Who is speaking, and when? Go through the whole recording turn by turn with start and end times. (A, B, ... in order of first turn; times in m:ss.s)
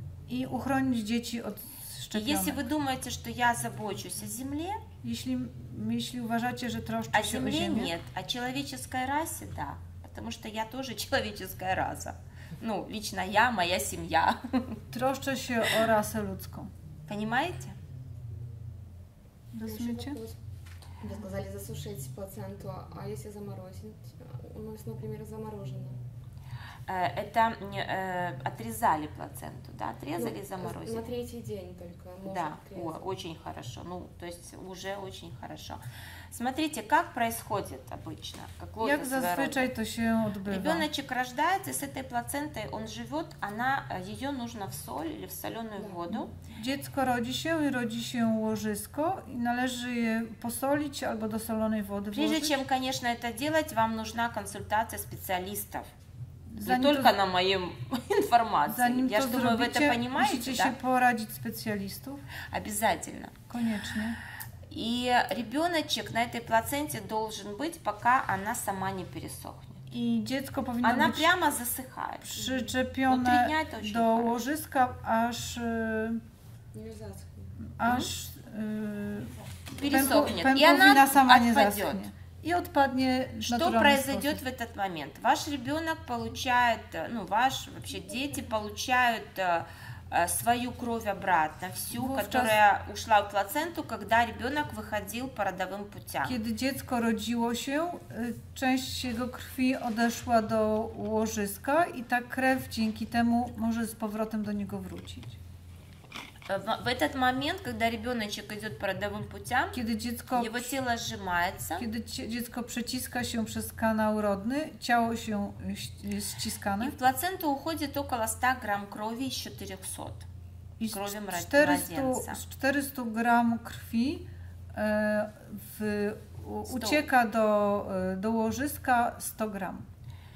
0:00.3-0:02.6 A
0:02.1-0:04.8 B
0:05.0-0:07.9 A
0:07.1-0:14.8 B
0:14.9-0:16.7 A
0:17.1-0:17.8 B
0:19.5-0:20.2 A
0:19.6-0:20.4 C
0:21.0-0:26.0 C
0:26.9-0:31.1 B
0:30.2-0:33.0 C
0:32.2-0:35.8 B
0:36.3-0:39.7 B
0:38.8-0:40.9 A
0:40.4-0:46.3 B
0:46.5-0:52.6 A
0:52.1-0:55.9 B
0:56.5-0:57.1 A
0:56.6-1:00.8 B
0:58.7-1:02.2 A
1:02.5-1:03.4 B
1:03.5-1:04.2 A
1:04.7-1:09.8 B
1:09.9-1:11.3 A
1:10.8-1:12.4 B
1:12.2-1:16.2 A
1:13.1-1:14.4 B
1:16.7-1:17.6 C
1:17.6-1:24.4 A
1:17.8-1:18.1 B
1:19.7-1:22.0 B
1:23.4-1:36.4 B
1:31.9-1:32.6 A
1:36.2-1:45.4 A
1:46.5-1:49.8 B
1:49.7-1:50.7 A
1:50.3-1:51.9 B
1:51.8-1:56.9 A
1:56.8-2:00.3 B
2:00.8-2:09.9 A
2:00.9-2:02.4 B
2:06.6-2:07.0 B